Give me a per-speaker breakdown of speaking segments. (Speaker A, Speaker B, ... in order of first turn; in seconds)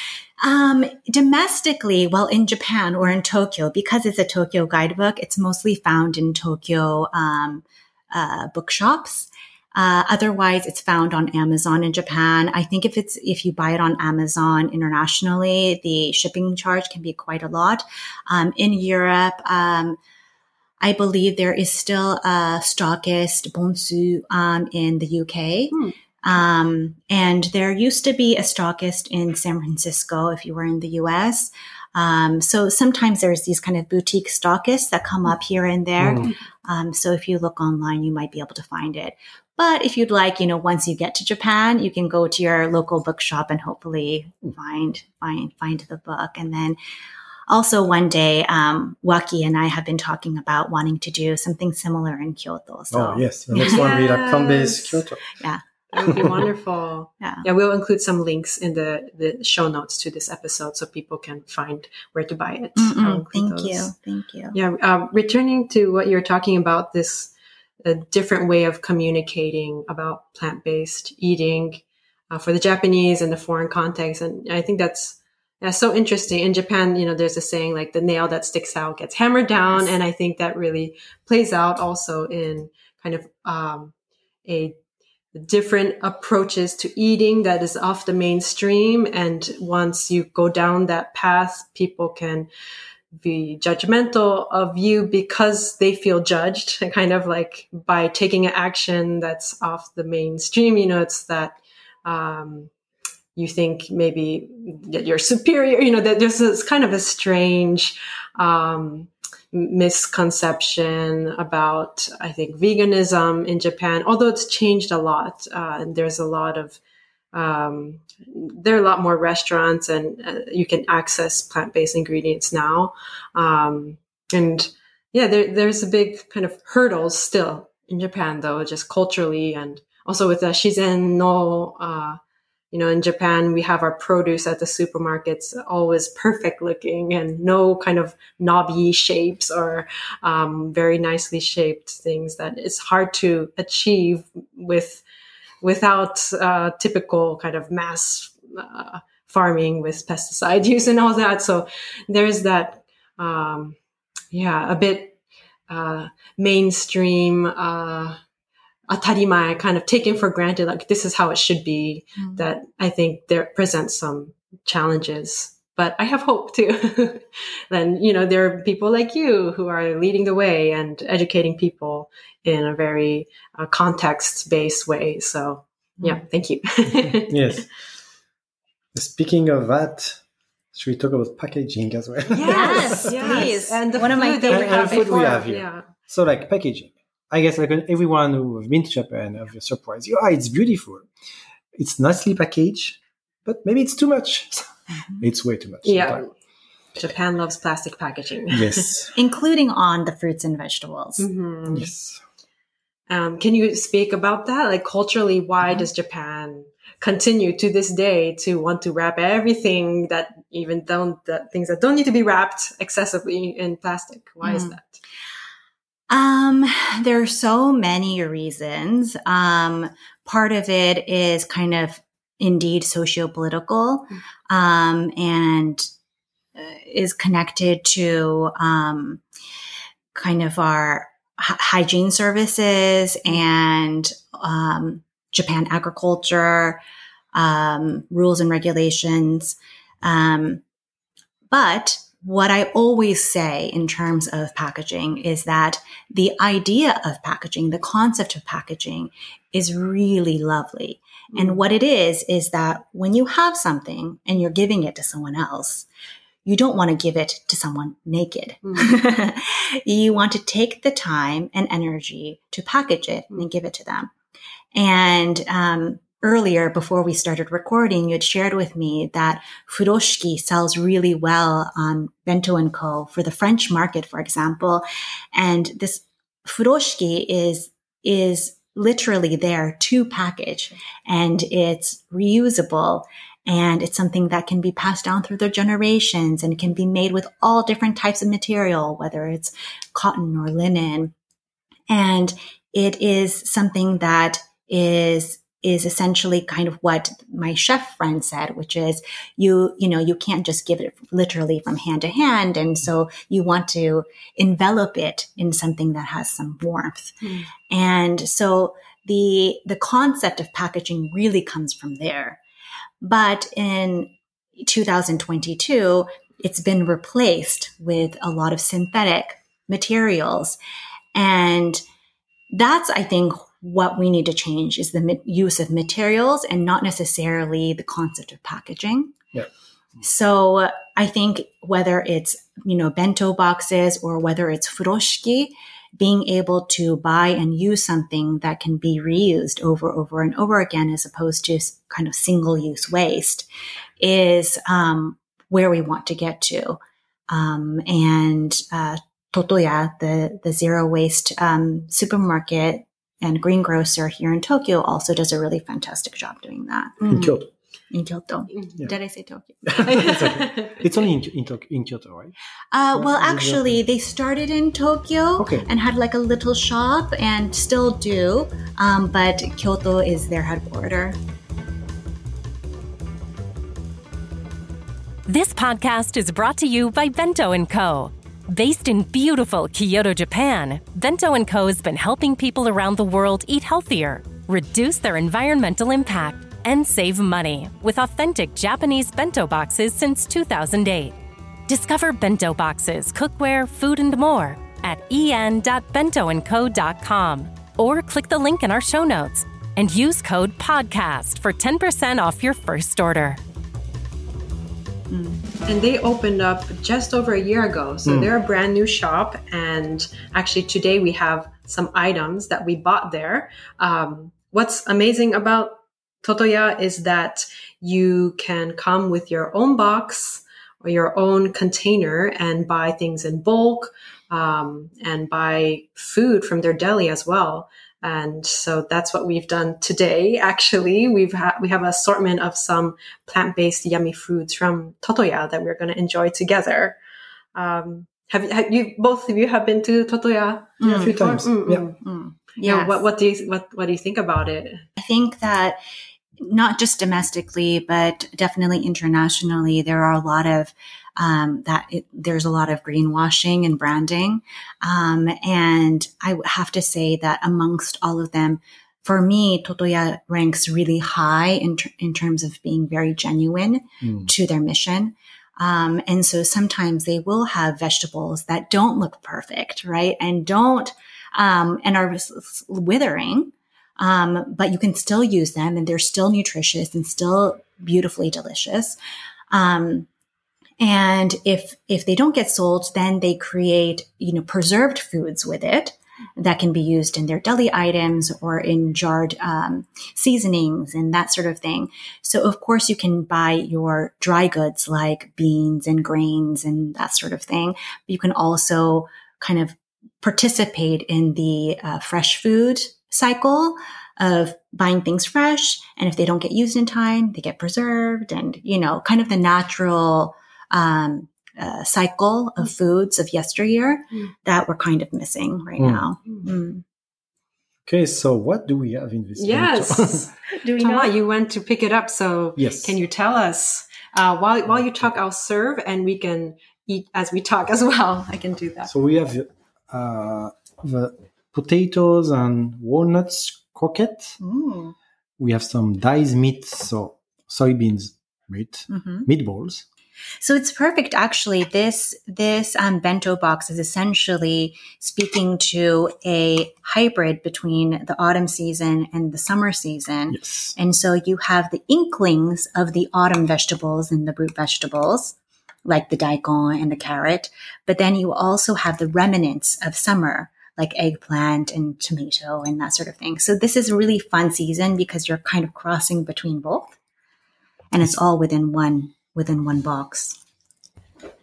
Speaker A: 0.4-20.0, 20.8-46.8, 47.5-53.9, 62.8-64.6, 162.2-162.4, 182.4-185.1, 199.1-201.3, 214.4-214.8, 216.1-225.9, 226.5-229.2, 230.1-236.8, 237.3-240.6, 241.5-255.9, 256.4-264.1, 264.7-291.1, 291.9-312.4, 313.0-320.6, 321.1-321.8, 322.5-329.2, 330.0-343.5, 344.0-360.0, 362.7-371.2, 405.1-405.4, 440.8-441.2, 441.9-443.1, 445.0-445.8, 446.4-479.0, 479.5-480.1, 480.8-516.8, 520.5-521.1, 534.4-534.9, 538.9-539.3, 540.4-567.0, 567.9-570.4
Speaker B: 36.0-36.3, 52.9-55.4, 56.0-56.4, 177.3-177.7, 178.9-180.2, 180.7-183.5, 184.5-191.1, 191.8-196.2, 198.5-199.1, 201.7-202.2, 357.0-357.4, 359.7-362.3, 362.9-363.8, 365.4-365.7, 440.9-441.8, 464.0-464.3, 515.8-516.0, 517.9-520.3, 522.6-523.0, 528.9-534.4, 535.4-539.8, 550.3-550.7
Speaker C: 53.5-55.0, 55.9-63.9, 64.5-67.3, 67.8-83.9, 84.4-84.8, 85.3-92.5, 93.1-102.7, 103.3-116.8, 117.3-132.2, 132.7-145.0, 145.6-153.8, 154.3-155.2, 155.7-158.2, 158.9-177.6, 182.3-185.9, 195.8-196.3, 196.9-198.9, 201.2-201.9, 203.1-215.0, 251.3-251.6, 258.6-258.9, 359.8-360.9, 405.6-437.0, 437.5-442.0, 442.6-444.9, 519.4-528.9
Speaker D: 375.2-403.4